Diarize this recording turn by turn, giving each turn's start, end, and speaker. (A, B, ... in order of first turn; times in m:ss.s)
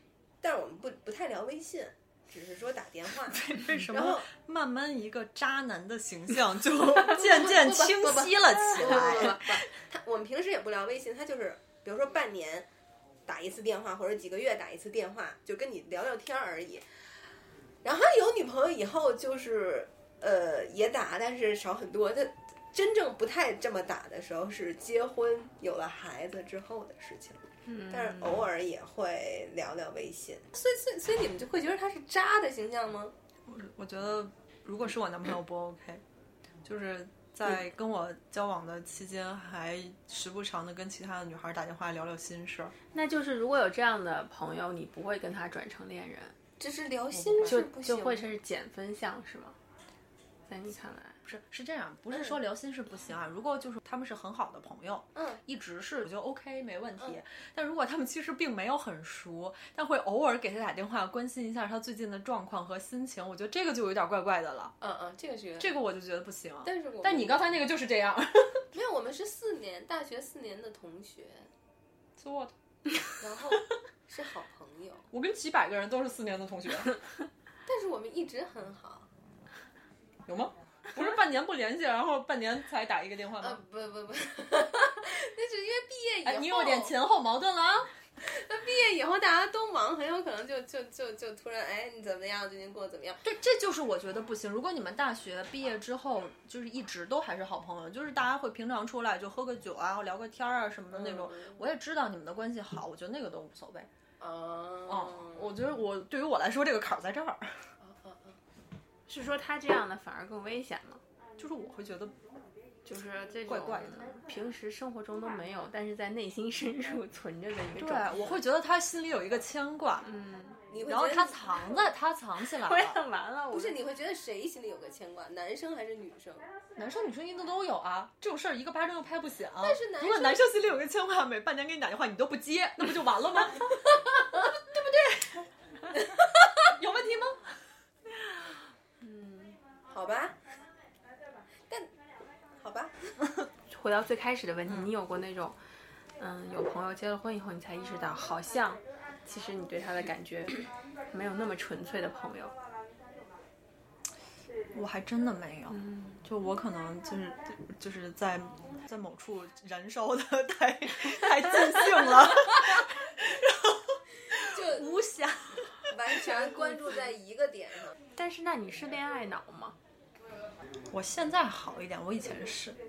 0:00.4-0:04.3 A
0:03.3-0:09.6 B
0:07.0-0:12.7 A
0:13.3-0:16.9 A
0:17.8-0:33.1 A
0:27.7-0:28.5 C
0:33.5-0:36.0 B
0:36.6-0:42.8 B
0:42.9-0:46.4 C
0:46.6-0:48.2 A
0:47.1-0:47.6 B
0:47.5-0:49.6 C
0:50.5-0:51.2 C
0:51.2-1:04.8 B
0:55.2-0:55.4 A
1:04.8-1:05.7 A
1:05.6-1:08.7 B
1:06.6-1:07.4 A
1:08.7-1:11.5 A
1:12.2-1:12.6 B
1:13.2-1:15.1 A
1:15.1-1:17.0 B
1:17.7-1:19.1 A
1:20.3-1:23.6 B
1:23.4-1:26.9 A
1:26.2-1:27.9 B
1:28.2-1:33.2 A
1:33.2-1:43.9 B
1:40.9-1:41.5 A
1:44.2-1:45.5 A
1:44.9-1:47.7 B
1:47.8-1:48.4 A
1:49.1-1:51.0 C
1:51.4-1:52.2 B
1:52.8-1:58.4 C
1:53.4-1:54.1 B
1:57.8-2:00.1 B
2:00.0-2:00.6 C
2:00.7-2:01.7 A
2:00.9-2:03.0 B
2:02.6-2:03.8 C
2:03.5-2:06.5 A
2:06.8-2:13.8 B
2:09.6-2:10.5 A
2:13.9-2:14.4 A
2:14.7-2:15.1 B
2:16.7-2:17.5 B
2:19.0-2:19.6 C
2:19.9-2:20.4 A
2:22.6-2:23.1 A
2:23.7-2:25.6 C
2:26.2-2:32.5 C
2:34.7-2:46.5 B
2:35.7-2:36.2 C
2:44.4-2:44.9 A
2:45.9-2:48.0 A
2:48.2-2:49.8 C
2:50.9-2:52.8 B